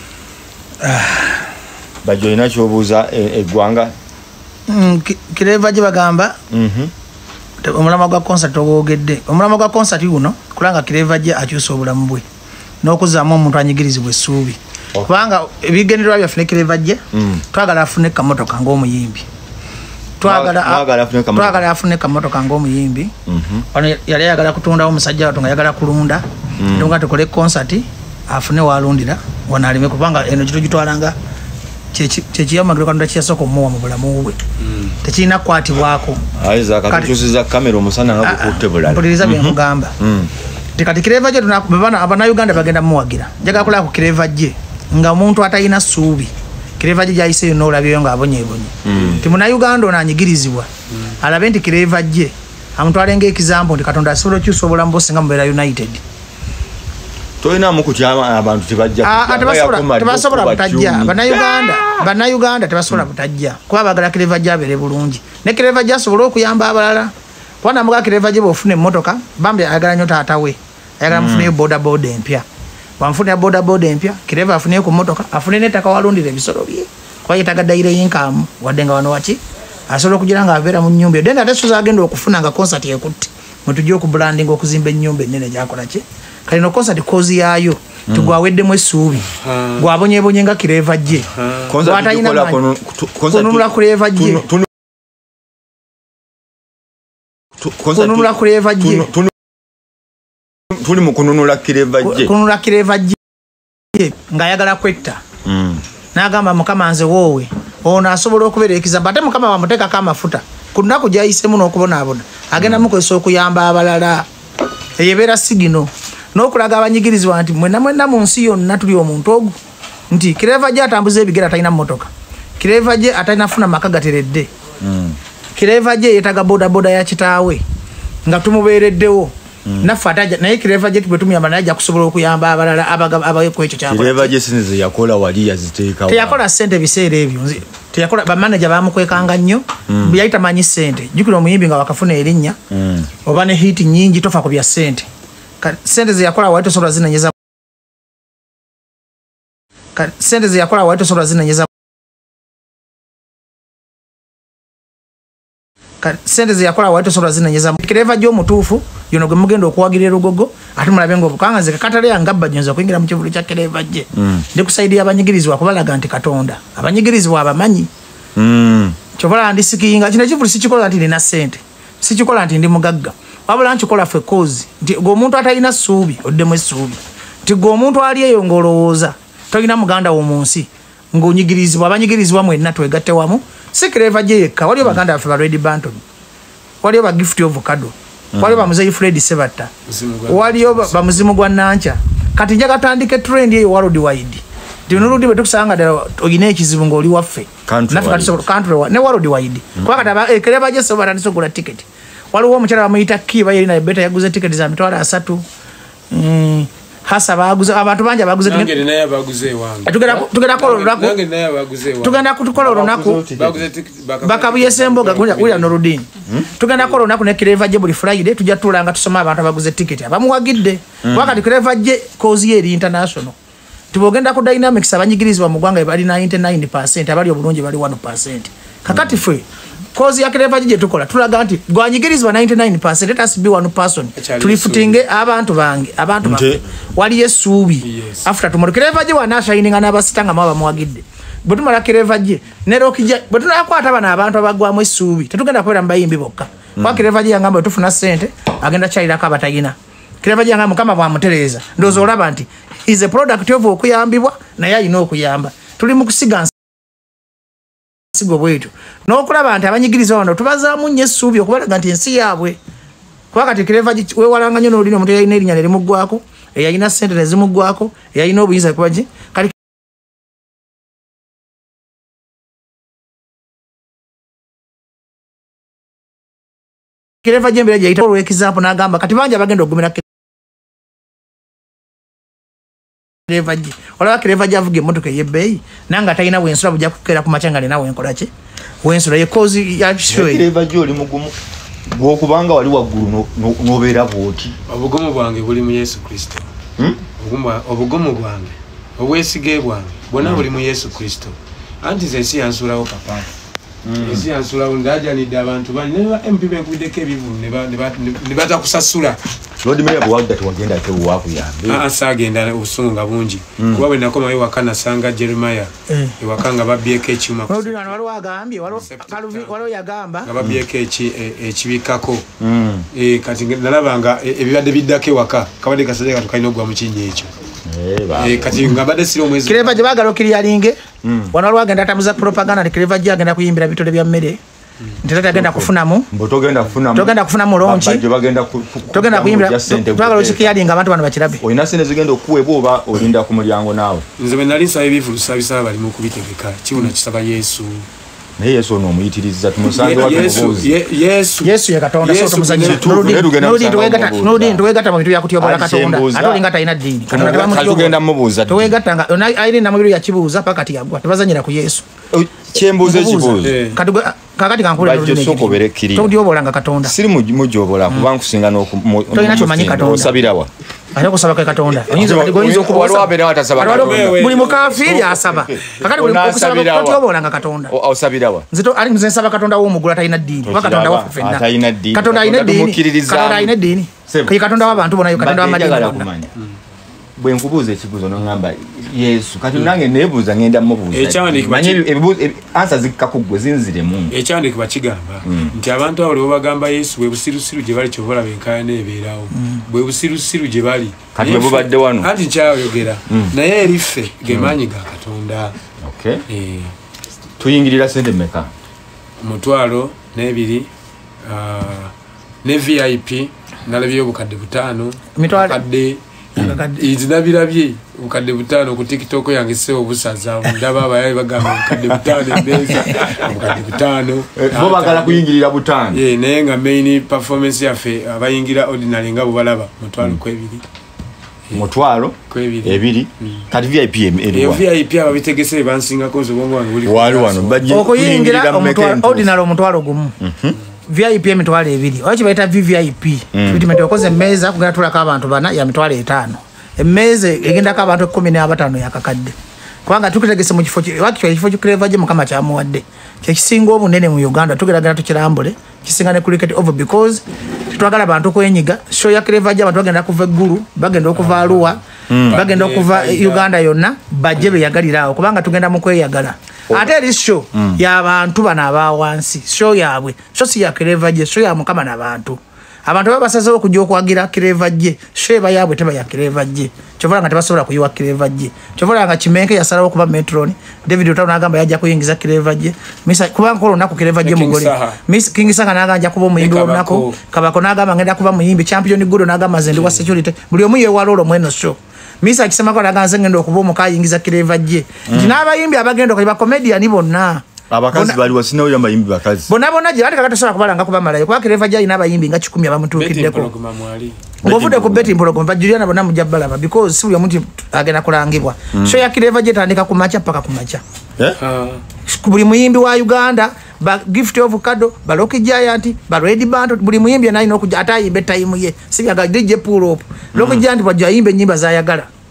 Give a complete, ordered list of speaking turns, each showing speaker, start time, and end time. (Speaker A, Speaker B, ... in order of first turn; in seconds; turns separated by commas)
Speaker A: 0.8-1.5, Speaker B: 2.0-3.9, Speaker A: 4.7-6.4, Speaker B: 6.5-6.9, Speaker A: 7.6-12.2, Speaker A: 12.8-17.0, Speaker B: 14.9-15.2, Speaker B: 17.1-17.4, Speaker A: 17.5-19.2, Speaker A: 20.2-23.1, Speaker B: 20.2-21.6, Speaker B: 23.3-23.7, Speaker A: 23.7-31.2, Speaker B: 26.6-26.9, Speaker A: 31.9-34.4, Speaker C: 34.6-35.0, Speaker A: 35.0-36.3, Speaker B: 36.4-40.3, Speaker A: 36.9-37.2, Speaker A: 38.2-40.0, Speaker A: 40.8-50.7, Speaker B: 48.9-49.2, Speaker C: 48.9-49.3, Speaker C: 50.9-51.2, Speaker A: 51.2-56.0, Speaker B: 57.4-62.1, Speaker A: 59.0-67.1, Speaker A: 67.6-72.5, Speaker B: 71.1-71.5, Speaker A: 73.0-91.3, Speaker B: 88.1-88.3, Speaker C: 89.4-89.9, Speaker C: 91.3-91.7, Speaker B: 91.7-94.7, Speaker A: 91.8-92.6, Speaker A: 93.3-94.5, Speaker B: 97.6-99.3, Speaker A: 98.0-99.1, Speaker B: 100.7-102.3, Speaker A: 102.0-103.2, Speaker A: 103.9-105.2, Speaker B: 105.5-105.8, Speaker A: 106.1-114.3, Speaker B: 112.6-112.9, Speaker A: 115.0-119.5, Speaker A: 120.1-124.5, Speaker B: 124.8-125.2, Speaker A: 125.6-127.6, Speaker A: 128.3-134.3, Speaker B: 129.7-129.9, Speaker B: 133.9-136.4, Speaker A: 136.1-142.6, Speaker B: 139.9-140.2, Speaker B: 142.7-143.1, Speaker A: 143.2-145.1, Speaker A: 145.6-147.3, Speaker A: 150.0-151.7, Speaker A: 156.0-167.9, Speaker B: 164.1-164.5, Speaker B: 168.4-169.0, Speaker A: 169.2-186.0, Speaker A: 186.8-189.7, Speaker B: 188.3-188.7, Speaker C: 189.9-191.3, Speaker A: 190.3-205.4, Speaker B: 197.7-198.4, Speaker A: 206.1-208.8, Speaker C: 208.4-212.2, Speaker A: 209.9-211.2, Speaker A: 212.0-213.2, Speaker B: 212.6-213.6, Speaker C: 213.3-215.7, Speaker A: 214.2-223.3, Speaker B: 221.0-221.4, Speaker A: 223.9-229.4, Speaker B: 228.9-229.2, Speaker A: 229.9-256.5, Speaker C: 234.2-235.0, Speaker B: 236.2-236.6, Speaker C: 237.8-238.3, Speaker B: 246.8-247.1, Speaker A: 258.1-262.6, Speaker A: 263.3-269.6, Speaker A: 277.2-280.0, Speaker A: 283.3-288.3, Speaker A: 288.8-290.5, Speaker B: 290.1-291.3, Speaker B: 291.9-294.6, Speaker C: 294.7-296.5, Speaker C: 297.2-303.3, Speaker B: 303.9-304.2, Speaker C: 304.0-309.2, Speaker B: 309.6-311.8, Speaker C: 311.7-317.9, Speaker B: 313.6-313.9, Speaker A: 315.9-316.1, Speaker A: 317.5-320.3, Speaker C: 318.7-319.6, Speaker C: 320.2-322.2, Speaker B: 322.4-322.9, Speaker C: 322.9-327.3, Speaker B: 327.6-328.7, Speaker C: 328.2-329.8, Speaker A: 329.4-330.8, Speaker B: 331.0-331.3, Speaker A: 331.3-334.4, Speaker A: 335.0-336.1, Speaker B: 335.3-340.6, Speaker A: 336.9-338.1, Speaker A: 338.9-341.4, Speaker B: 341.4-344.0, Speaker C: 344.2-347.9, Speaker B: 348.4-350.7, Speaker C: 349.7-353.1, Speaker A: 351.4-361.9, Speaker B: 352.6-354.6, Speaker B: 355.4-356.4, Speaker B: 357.1-358.8, Speaker C: 357.1-357.9, Speaker B: 362.1-363.6, Speaker A: 362.8-366.9, Speaker C: 363.4-363.8, Speaker B: 364.8-366.1, Speaker B: 366.8-370.5, Speaker A: 369.1-370.2, Speaker A: 370.9-377.7, Speaker B: 371.9-377.0, Speaker C: 373.6-375.0, Speaker B: 377.7-378.5, Speaker A: 378.5-386.1, Speaker B: 380.4-383.6, Speaker B: 384.1-384.4, Speaker B: 385.1-386.3, Speaker B: 387.2-394.1, Speaker C: 390.9-391.8, Speaker C: 394.1-405.6, Speaker B: 395.2-395.5, Speaker B: 401.1-402.1, Speaker B: 403.1-403.3, Speaker B: 404.3-404.5, Speaker B: 405.8-406.2, Speaker C: 406.3-406.7, Speaker B: 407.4-408.5, Speaker C: 409.2-410.7, Speaker C: 411.2-411.9, Speaker C: 412.4-425.2, Speaker A: 415.2-415.6, Speaker A: 416.4-416.9, Speaker B: 424.4-426.0, Speaker C: 425.9-430.6, Speaker B: 431.5-434.6, Speaker C: 432.3-433.4, Speaker C: 434.3-437.7, Speaker B: 436.8-439.3, Speaker A: 437.7-440.1, Speaker B: 440.2-440.6, Speaker A: 440.9-449.3, Speaker B: 443.3-443.7, Speaker A: 449.9-498.2, Speaker C: 461.2-463.5, Speaker B: 462.1-462.4, Speaker B: 467.6-467.8, Speaker C: 484.2-485.0, Speaker C: 486.4-487.2, Speaker C: 489.7-490.1, Speaker B: 495.1-495.4, Speaker B: 497.7-499.5, Speaker A: 499.5-503.5, Speaker C: 502.9-504.2, Speaker B: 504.4-505.1, Speaker A: 504.4-510.8, Speaker B: 508.7-509.1, Speaker C: 511.4-511.8, Speaker A: 512.1-522.1, Speaker B: 520.3-520.7